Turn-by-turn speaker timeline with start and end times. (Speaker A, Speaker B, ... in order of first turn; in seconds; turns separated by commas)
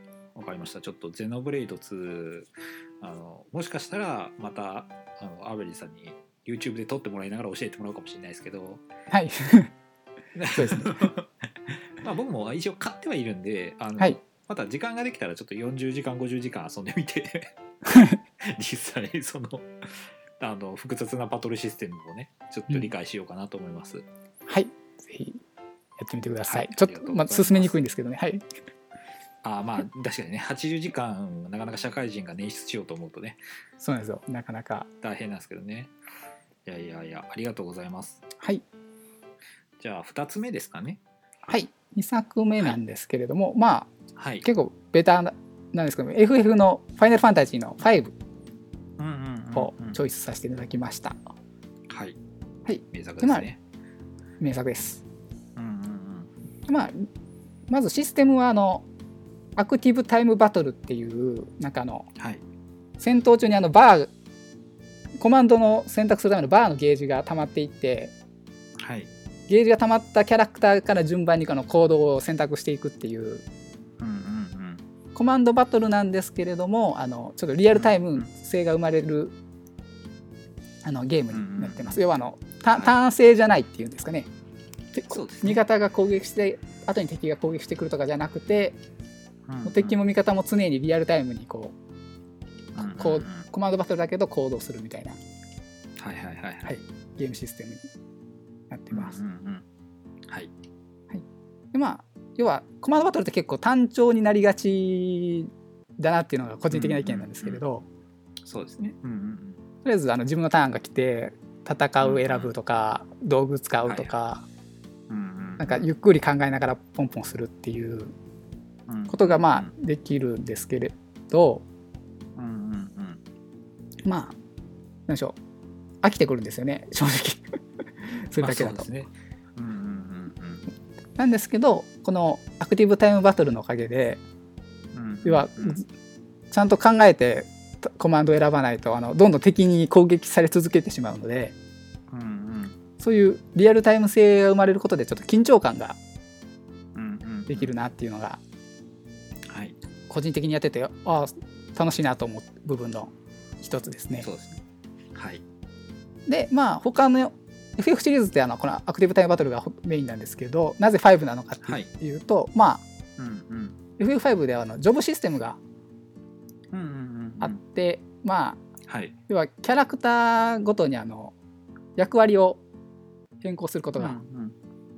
Speaker A: 0.3-2.5, Speaker A: 3.0-8.8, Speaker B: 9.1-9.7, Speaker A: 10.3-17.5, Speaker B: 10.5-11.1, Speaker B: 17.9-18.2, Speaker A: 18.4-24.1, Speaker B: 24.5-25.4, Speaker B: 26.0-28.4, Speaker A: 26.5-27.8, Speaker A: 29.4-33.4, Speaker B: 33.8-34.9, Speaker A: 35.0-35.9, Speaker A: 36.7-38.2, Speaker A: 39.8-41.0, Speaker B: 41.5-43.9, Speaker A: 44.1-44.5, Speaker B: 44.4-48.1, Speaker A: 49.0-50.0, Speaker B: 49.5-51.2, Speaker A: 51.9-52.2, Speaker B: 52.7-53.5, Speaker A: 52.9-53.6, Speaker B: 54.4-55.0, Speaker A: 55.6-56.3, Speaker B: 56.7-57.1, Speaker B: 57.7-58.9, Speaker B: 59.6-62.1, Speaker A: 62.2-62.4, Speaker B: 63.0-64.1, Speaker B: 65.2-68.1, Speaker A: 68.8-69.1, Speaker B: 69.5-73.4, Speaker A: 74.0-74.8, Speaker B: 75.2-79.3, Speaker A: 77.7-78.2, Speaker B: 80.8-84.3, Speaker A: 81.3-82.0, Speaker B: 84.9-88.8, Speaker A: 85.1-85.6, Speaker A: 89.5-90.0, Speaker B: 89.7-91.8, Speaker A: 92.8-93.5, Speaker B: 92.8-95.2, Speaker A: 96.0-96.8, Speaker B: 96.7-97.8, Speaker B: 98.7-99.2, Speaker A: 98.9-99.7, Speaker A: 100.3-100.5, Speaker B: 101.1-107.9, Speaker A: 106.7-107.6, Speaker A: 108.4-109.6, Speaker B: 109.8-114.5, Speaker A: 112.0-112.5, Speaker A: 113.8-114.1, Speaker A: 115.1-115.8, Speaker B: 115.6-118.1, Speaker A: 118.9-119.7, Speaker B: 119.1-121.7, Speaker A: 122.4-123.2, Speaker B: 124.1-124.4, Speaker B: 125.1-125.4, Speaker B: 126.0-127.4, Speaker B: 128.3-128.9, Speaker A: 128.4-130.7, Speaker B: 131.2-134.2, Speaker A: 134.9-135.8, Speaker B: 135.2-135.9, Speaker B: 136.5-141.6, Speaker A: 142.1-142.8, Speaker B: 143.0-146.0, Speaker A: 146.9-147.7, Speaker B: 147.5-148.4, Speaker A: 149.5-149.8, Speaker B: 150.1-154.3, Speaker A: 154.2-154.6, Speaker A: 155.1-155.4, Speaker B: 156.3-162.8, Speaker A: 161.6-161.9, Speaker A: 163.2-163.8, Speaker B: 164.0-165.6, Speaker A: 166.7-167.6, Speaker B: 167.4-168.6, Speaker A: 168.9-169.2, Speaker B: 169.3-171.3, Speaker B: 172.0-172.6, Speaker B: 173.4-174.2, Speaker A: 174.0-174.6